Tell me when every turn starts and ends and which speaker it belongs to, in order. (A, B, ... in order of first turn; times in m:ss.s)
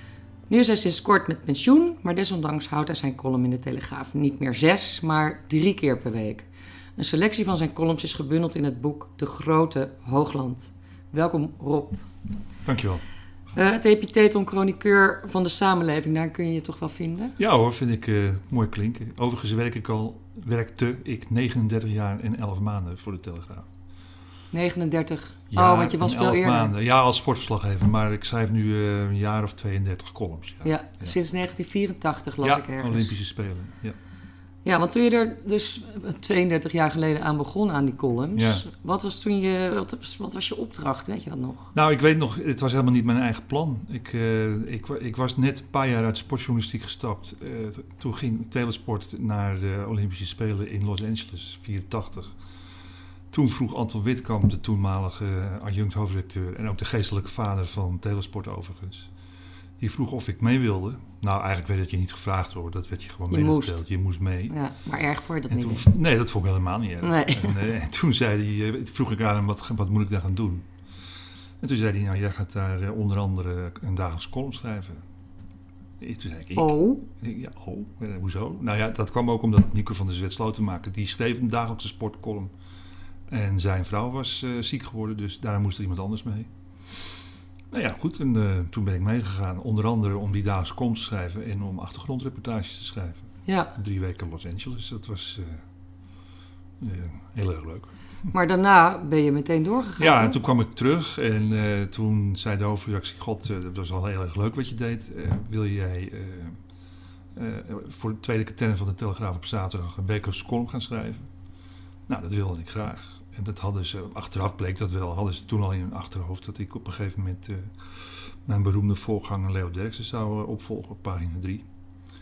0:00.5-0:12.0 A
0:12.6-0:13.0 B
0:13.5-0:17.4 A
0:17.4-0:23.7 B
0:24.5-0:26.7 A
0:25.5-0:31.2 B
0:30.6-0:33.1 A
0:32.4-0:34.0 B
0:34.6-0:41.7 A
0:38.3-0:38.6 B
0:41.7-0:52.4 B
0:53.3-0:59.1 B
0:59.8-1:04.6 B
1:03.3-1:03.8 A
1:04.5-1:05.9 A
1:05.5-1:10.7 B
1:07.0-1:07.7 A
1:11.6-1:15.0 B
1:16.0-1:22.5 B
1:16.6-1:17.1 A
1:23.3-1:27.1 B
1:27.7-1:35.6 B
1:33.4-1:33.7 A
1:36.8-1:37.9 B
1:38.3-1:40.4 A
1:40.0-1:46.6 B
1:47.3-1:51.3 B
1:52.1-2:01.6 B